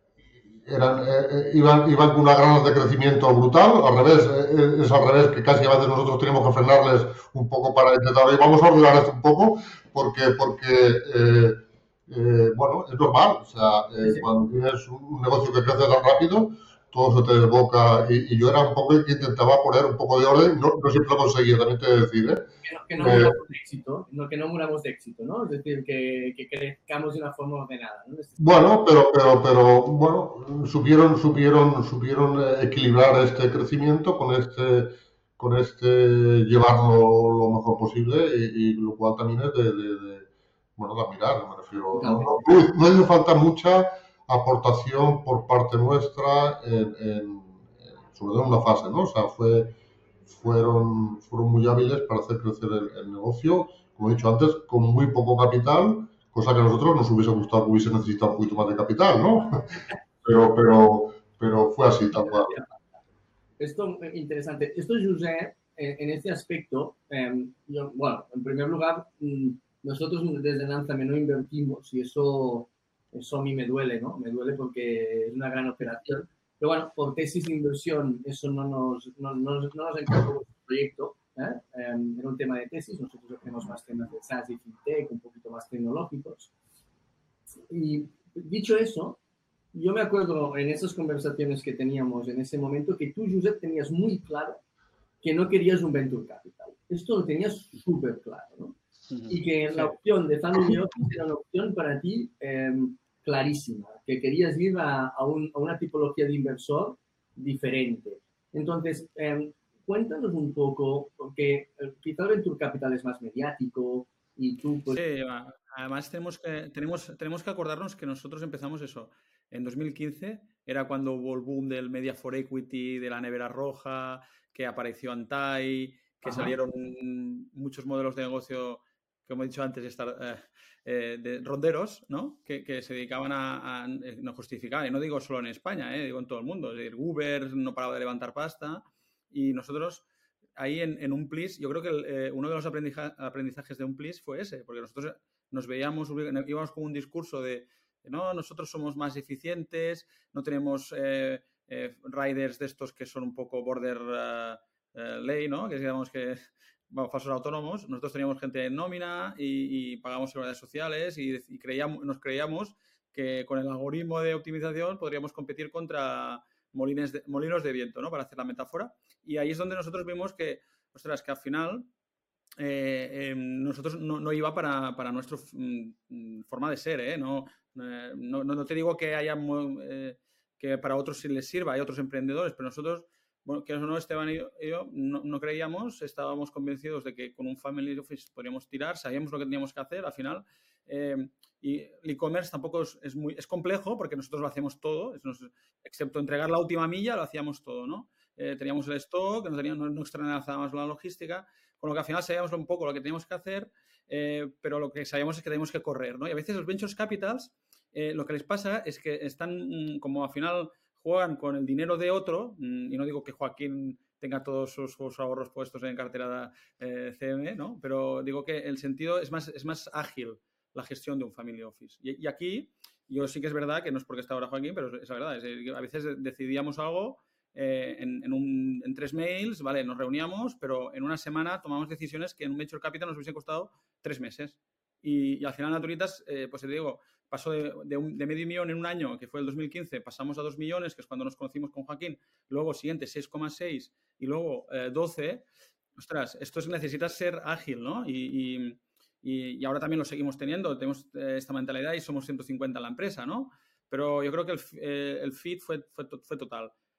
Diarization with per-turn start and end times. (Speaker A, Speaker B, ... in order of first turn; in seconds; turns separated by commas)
Speaker A: 0.5-23.4, Speaker B: 14.0-14.3, Speaker B: 22.6-28.7, Speaker A: 28.4-49.7, Speaker B: 41.9-42.5, Speaker A: 50.2-62.5, Speaker B: 62.1-62.8, Speaker B: 63.6-86.5, Speaker B: 87.7-89.2, Speaker B: 89.7-94.6, Speaker B: 95.2-98.8, Speaker C: 99.1-100.0, Speaker B: 99.3-115.0, Speaker C: 114.9-140.0, Speaker B: 126.2-126.5, Speaker C: 140.6-171.9, Speaker C: 172.6-245.4, Speaker C: 246.0-256.7